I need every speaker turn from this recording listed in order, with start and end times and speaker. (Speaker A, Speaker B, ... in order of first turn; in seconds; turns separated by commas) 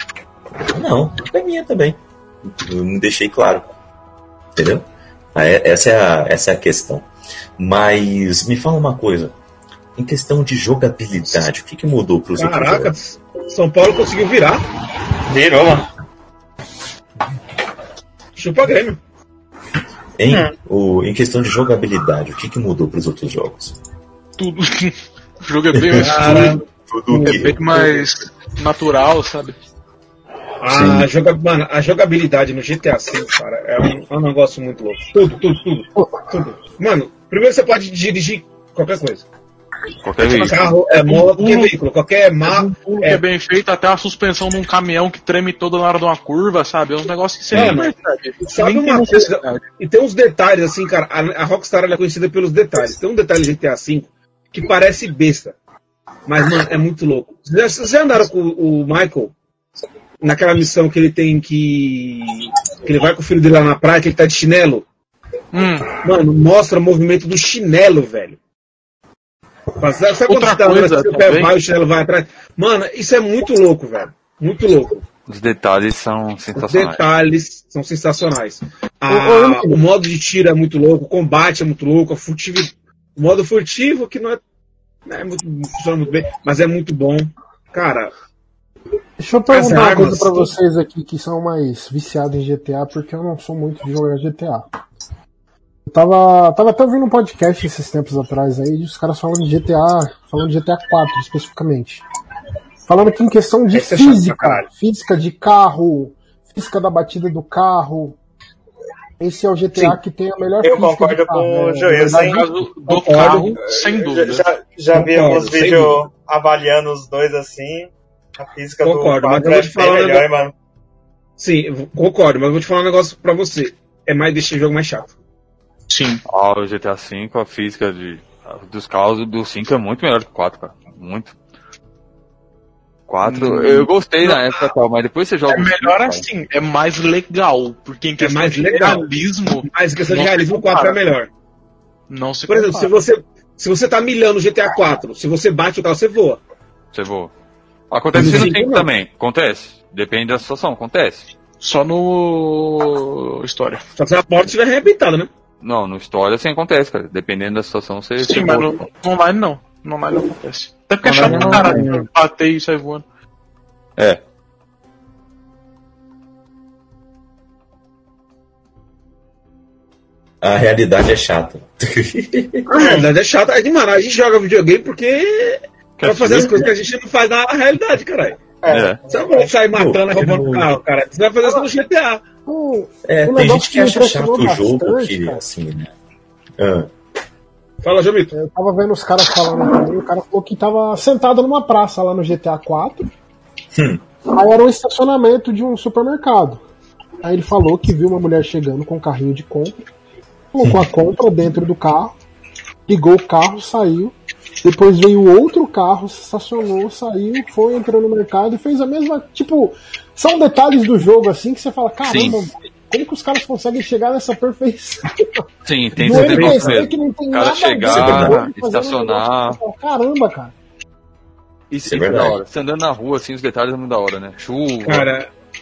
Speaker A: 0.6-3.8, Speaker A: 4.5-7.1, Speaker A: 7.6-9.3, Speaker A: 9.9-12.9, Speaker B: 12.4-14.6, Speaker C: 15.3-15.8, Speaker B: 18.4-19.0, Speaker A: 20.2-23.8, Speaker D: 24.4-29.6, Speaker A: 25.7-28.0, Speaker B: 26.0-26.6, Speaker B: 30.6-39.2, Speaker A: 30.6-31.1, Speaker E: 40.0-40.7, Speaker B: 40.2-43.2, Speaker D: 40.2-41.7, Speaker D: 42.4-49.6, Speaker B: 47.5-47.9, Speaker B: 48.5-55.6, Speaker B: 56.2-59.3, Speaker B: 60.2-64.8, Speaker D: 65.5-65.9, Speaker B: 66.0-68.4, Speaker B: 69.8-75.0, Speaker D: 70.3-71.5, Speaker E: 75.3-77.0, Speaker B: 76.5-84.4, Speaker F: 79.1-79.8, Speaker B: 85.0-88.1, Speaker F: 89.2-94.6, Speaker B: 89.5-90.5, Speaker F: 95.9-102.0, Speaker F: 102.9-108.2, Speaker B: 103.7-104.7, Speaker F: 109.2-112.4, Speaker C: 110.6-112.4, Speaker D: 112.0-114.5, Speaker B: 112.9-113.6, Speaker C: 113.6-120.5, Speaker B: 114.9-116.0, Speaker B: 118.8-120.3, Speaker B: 121.4-125.1, Speaker D: 125.9-126.2, Speaker E: 126.3-131.3, Speaker E: 133.1-136.2, Speaker D: 133.2-133.9, Speaker B: 134.2-134.7, Speaker D: 135.5-141.0, Speaker B: 138.2-139.1, Speaker B: 139.7-141.3, Speaker D: 142.1-142.9, Speaker B: 142.5-146.4, Speaker E: 146.9-147.3, Speaker E: 147.9-151.3, Speaker B: 148.1-148.9, Speaker D: 151.6-153.8, Speaker B: 154.0-155.3, Speaker E: 155.6-158.8, Speaker D: 158.2-163.0, Speaker E: 161.0-162.1, Speaker B: 161.2-161.9, Speaker A: 170.4-172.6, Speaker C: 172.7-173.1, Speaker B: 172.7-178.4, Speaker E: 176.0-176.6, Speaker C: 178.6-179.5, Speaker E: 178.7-179.0, Speaker B: 179.1-182.2, Speaker A: 179.7-180.7, Speaker F: 182.4-185.4, Speaker A: 183.0-185.9, Speaker A: 186.6-186.9, Speaker B: 187.8-188.3, Speaker F: 188.3-193.0, Speaker A: 193.7-194.0, Speaker F: 194.3-196.6, Speaker F: 197.2-199.8, Speaker F: 200.5-202.2, Speaker F: 202.9-215.0, Speaker E: 212.1-212.4, Speaker E: 215.6-219.6, Speaker A: 216.0-216.8, Speaker F: 216.0-220.5, Speaker A: 217.9-218.4, Speaker E: 221.7-225.1, Speaker A: 221.8-222.4, Speaker B: 224.8-225.3